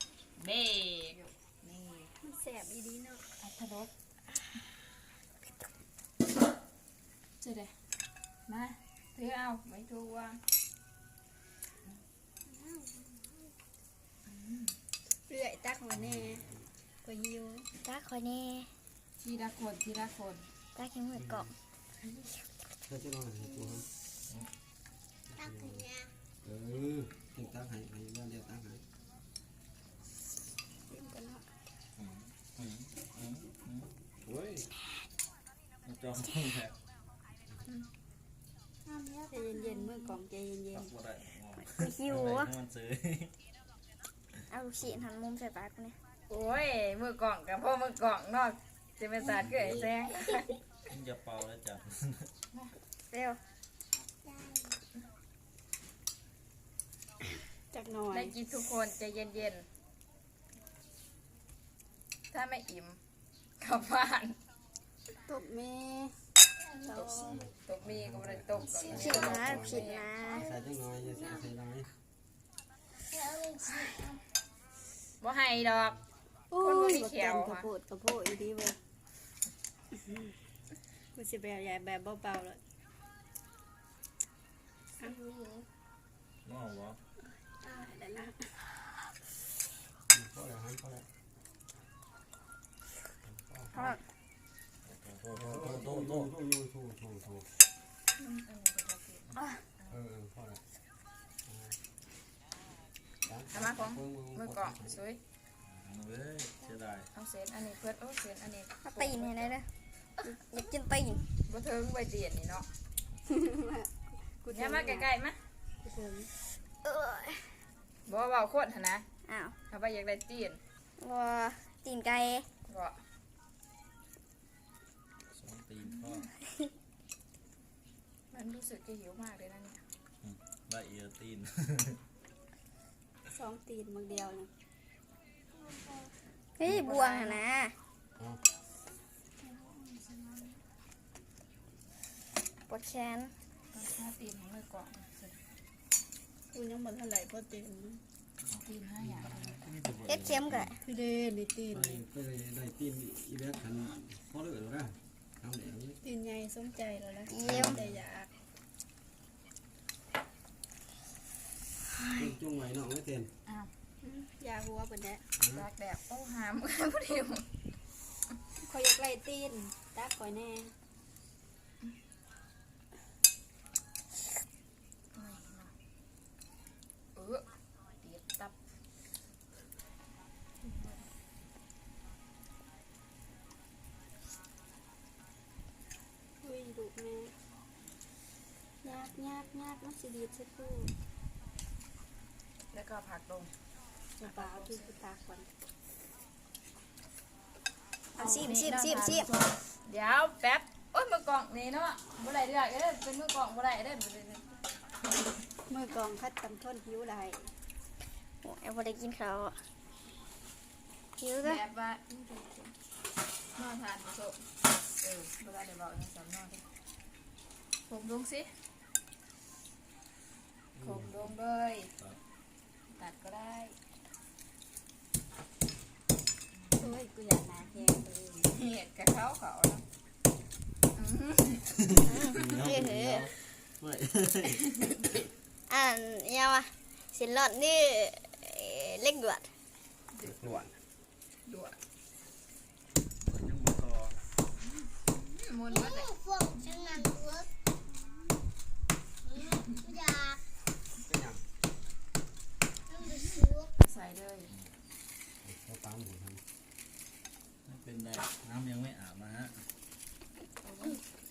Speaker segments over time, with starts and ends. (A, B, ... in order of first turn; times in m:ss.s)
0:00.4-0:02.1 A
0:02.2-0:03.2 B
0:03.4-0:03.9 A
0:07.4-0:07.7 A
0:08.5-0:10.4 A
0:12.6-0:13.2 C
0:14.3-0:14.7 A
0:15.3-0:16.4 B
0:15.9-0:16.6 D
0:17.0-0:17.7 B
0:17.8-0:18.7 C
0:19.2-0:20.4 A
0:20.7-0:21.5 C
0:21.1-0:21.5 D
0:22.9-0:23.8 D
0:25.4-0:25.8 D
0:25.4-0:26.1 C
0:26.4-0:28.8 D
0:30.9-0:31.4 B
0:32.0-0:34.3 E
0:34.3-0:34.6 D
0:35.8-0:36.7 E
0:38.9-0:40.1 C
0:39.3-0:40.9 B
0:40.7-0:43.3 E
0:41.6-0:42.5 C
0:44.5-0:46.0 C
0:46.3-0:50.5 A
0:49.3-0:50.4 C
0:49.4-0:49.8 E
0:50.9-0:52.3 E
0:53.1-0:53.4 C
0:54.0-0:54.8 C
0:57.7-0:58.3 B
0:58.1-0:59.6 A
1:02.3-1:03.0 A
1:03.6-1:04.4 A
1:05.3-1:06.1 B
1:06.6-1:07.4 C
1:06.8-1:07.4 B
1:06.9-1:10.2 A
1:07.3-1:11.9 D
1:08.8-1:11.5 C
1:13.0-1:14.2 C
1:15.2-1:16.0 A
1:16.5-1:18.8 B
1:16.6-1:17.7 A
1:21.1-1:22.6 B
1:25.0-1:25.6 C
1:26.4-1:27.0 E
1:27.6-1:28.5 B
1:30.1-1:31.0 D
1:33.2-1:33.7 D
1:33.7-1:34.0 C
1:34.8-1:36.3 E
1:35.3-1:37.5 D
1:38.2-1:40.0 A
1:39.9-1:40.6 D
1:41.4-1:41.8 D
1:43.2-1:45.0 D
1:43.5-1:45.2 A
1:45.7-1:47.1 E
1:47.1-1:49.5 A
1:48.8-1:49.6 C
1:50.2-1:51.2 C
1:51.5-1:52.7 A
1:53.2-1:55.1 B
1:54.5-1:55.4 A
1:55.8-1:56.3 B
1:56.8-1:57.5 C
1:58.1-1:59.0 A
1:59.3-1:59.5 C
1:59.7-2:00.6 A
2:01.0-2:02.4 C
2:02.7-2:03.0 A
2:05.3-2:06.3 E
2:05.9-2:06.3 A
2:08.3-2:09.8 A
2:10.2-2:12.0 E
2:13.3-2:14.5 B
2:16.6-2:17.7 C
2:16.6-2:17.4 A
2:19.4-2:20.4 B
2:22.7-2:23.3 C
2:23.7-2:25.4 A
2:26.5-2:28.0 B
2:28.5-2:30.7 E
2:28.6-2:29.6 A
2:30.1-2:30.8 C
2:30.8-2:32.0 B
2:31.7-2:36.0 D
2:36.0-2:38.3 B
2:37.3-2:37.8 C
2:37.4-2:37.9 D
2:41.9-2:42.3 C
2:42.1-2:43.3 D
2:44.0-2:45.2 B
2:45.4-2:45.7 D
2:45.5-2:47.4 A
2:48.6-2:50.7 B
2:55.1-2:55.7 A
2:57.2-2:57.4 A
2:58.0-2:58.5 A
3:00.6-3:01.1 A
3:06.4-3:07.3 B
3:08.8-3:10.9 B
3:12.7-3:13.5 A
3:14.2-3:15.5 B
3:14.2-3:14.9 A
3:18.2-3:19.3 C
3:18.2-3:24.5 A
3:25.7-3:27.5 B
3:28.4-3:29.6 C
3:31.2-3:31.6 C
3:31.4-3:32.7 A
3:33.5-3:34.4 A
3:35.0-3:36.6 A
3:37.9-3:38.5 A
3:40.7-3:41.1 D
3:40.8-3:41.9 A
3:42.9-3:43.8 A
3:46.8-3:48.5 B
3:48.5-3:49.8 A
3:51.0-3:51.6 A
3:51.8-3:54.6 E
3:52.0-3:53.3 C
3:55.7-3:59.5 C
4:00.2-4:00.7 D
4:01.5-4:01.8 A
4:03.2-4:04.2 E
4:05.1-4:06.1 A
4:05.7-4:07.5 C
4:09.2-4:10.4 C
4:11.0-4:11.4 D
4:12.9-4:13.7 C
4:13.8-4:14.5 A
4:15.4-4:16.4 D
4:17.6-4:19.6 E
4:20.6-4:21.0 A